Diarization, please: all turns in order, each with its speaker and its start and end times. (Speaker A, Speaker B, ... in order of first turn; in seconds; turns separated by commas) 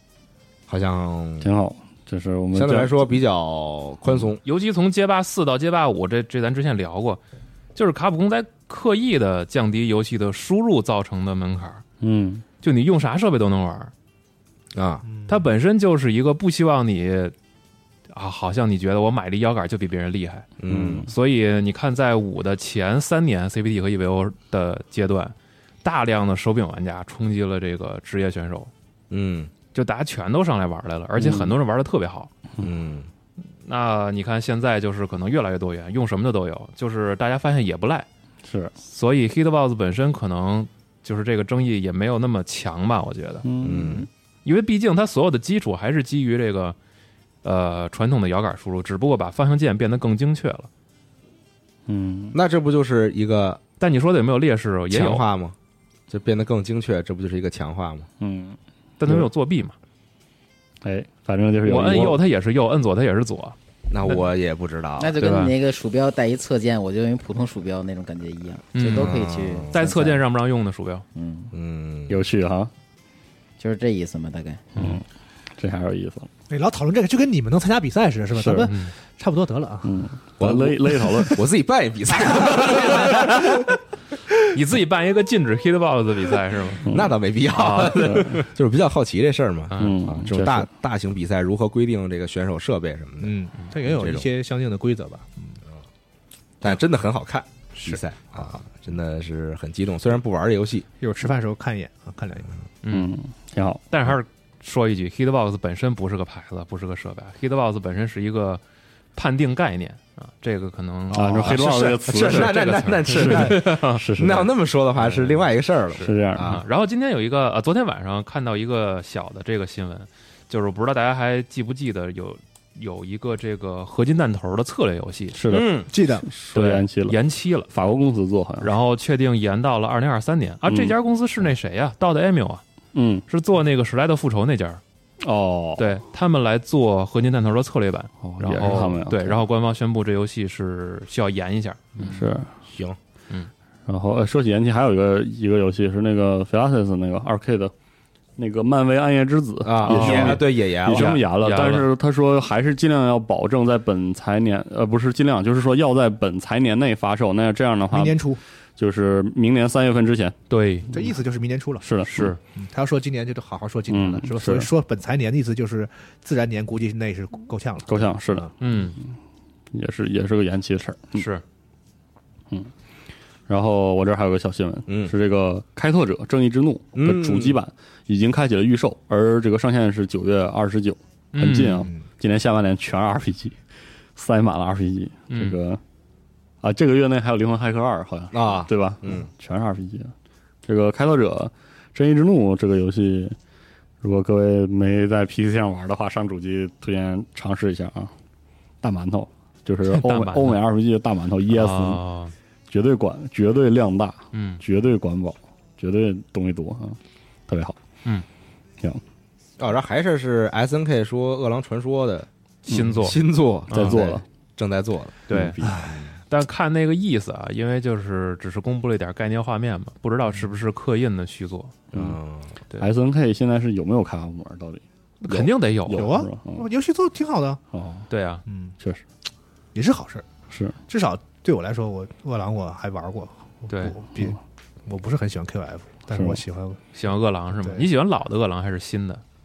Speaker A: 0.7-1.5, Speaker B: 1.4-3.1, Speaker A: 2.5-4.4, Speaker C: 4.4-7.2, Speaker C: 7.8-11.8, Speaker B: 12.0-12.4, Speaker C: 12.6-13.9, Speaker A: 14.8-15.1, Speaker D: 15.0-15.4, Speaker C: 15.3-17.3, Speaker C: 18.1-20.5, Speaker A: 20.6-21.1, Speaker B: 20.7-21.1, Speaker C: 21.1-28.7, Speaker A: 29.1-29.5, Speaker C: 29.7-32.3, Speaker B: 31.2-31.5, Speaker A: 32.6-33.1, Speaker C: 33.6-38.1, Speaker B: 38.5-38.7, Speaker C: 38.9-43.5, Speaker B: 43.4-44.1, Speaker A: 43.6-44.1, Speaker C: 44.5-46.8, Speaker C: 47.4-50.7, Speaker B: 51.9-52.4, Speaker A: 52.3-53.6, Speaker C: 53.8-55.2, Speaker A: 54.9-55.5, Speaker A: 56.1-58.1, Speaker B: 58.2-59.3, Speaker C: 59.0-59.8, Speaker B: 60.8-62.2, Speaker C: 61.6-64.3, Speaker A: 63.9-65.2, Speaker E: 65.0-70.2, Speaker C: 65.2-65.5, Speaker C: 68.7-71.0, Speaker A: 68.9-69.7, Speaker E: 71.2-71.5, Speaker A: 71.5-72.2, Speaker B: 72.1-72.7, Speaker E: 73.6-74.7, Speaker B: 74.8-75.0, Speaker B: 75.6-76.3, Speaker D: 76.5-79.9, Speaker B: 78.3-78.7, Speaker C: 78.7-78.9, Speaker B: 79.8-81.4, Speaker A: 80.4-83.5, Speaker C: 84.5-86.9, Speaker B: 86.9-87.1, Speaker A: 86.9-94.3, Speaker C: 87.5-88.5, Speaker B: 88.0-88.4, Speaker C: 89.7-90.0, Speaker B: 89.8-90.7, Speaker D: 93.2-95.6, Speaker A: 96.6-100.9, Speaker D: 97.7-98.6, Speaker D: 101.0-102.6, Speaker C: 102.8-103.2, Speaker B: 102.9-103.8, Speaker C: 103.9-108.6, Speaker C: 109.2-111.6, Speaker D: 111.1-111.9, Speaker B: 111.1-114.5, Speaker A: 111.4-116.6, Speaker C: 112.1-114.0, Speaker B: 115.0-115.4, Speaker C: 116.0-125.4, Speaker B: 116.0-116.6, Speaker B: 125.3-127.2, Speaker A: 125.5-125.9, Speaker D: 125.9-126.3, Speaker C: 126.5-127.7, Speaker B: 127.7-128.7, Speaker C: 128.6-132.6, Speaker B: 130.7-130.9, Speaker B: 132.9-133.2, Speaker C: 133.3-134.8, Speaker B: 135.2-135.9, Speaker C: 135.8-142.4, Speaker B: 138.2-139.4, Speaker B: 142.0-142.5, Speaker A: 142.7-143.0, Speaker B: 143.9-147.7, Speaker B: 148.4-158.2, Speaker A: 149.7-151.2, Speaker C: 149.8-151.9, Speaker D: 157.9-158.4, Speaker B: 158.8-160.4, Speaker C: 160.5-160.9, Speaker D: 160.9-161.9, Speaker B: 161.8-162.3, Speaker C: 162.1-162.4, Speaker D: 162.4-168.5, Speaker B: 163.9-164.7, Speaker B: 167.9-169.1, Speaker C: 168.6-169.0, Speaker B: 169.7-171.3, Speaker C: 171.2-171.4, Speaker B: 173.5-183.6, Speaker A: 174.9-175.1, Speaker A: 177.0-177.6, Speaker C: 181.3-181.9, Speaker B: 184.2-185.8, Speaker C: 185.3-185.6, Speaker B: 186.6-190.1, Speaker A: 188.3-189.3, Speaker B: 190.7-193.4, Speaker B: 194.0-198.1, Speaker B: 198.8-202.0, Speaker C: 199.9-200.6, Speaker C: 201.5-202.3, Speaker B: 202.7-207.8, Speaker C: 204.3-204.6, Speaker A: 209.6-212.3, Speaker C: 212.7-214.0, Speaker A: 212.9-215.2, Speaker B: 213.7-214.2, Speaker C: 215.3-215.7, Speaker B: 215.3-215.8, Speaker D: 215.6-216.0, Speaker A: 215.8-216.1, Speaker C: 216.3-221.9, Speaker A: 221.9-222.5, Speaker B: 222.8-224.8, Speaker C: 225.2-226.1, Speaker B: 225.4-226.7, Speaker D: 225.4-227.6, Speaker B: 227.7-228.1, Speaker C: 228.1-228.4, Speaker D: 228.5-228.8, Speaker D: 229.7-230.2, Speaker B: 230.5-230.8, Speaker D: 230.9-236.8, Speaker C: 233.7-234.0, Speaker B: 236.1-236.4, Speaker C: 236.9-239.2, Speaker D: 237.5-237.9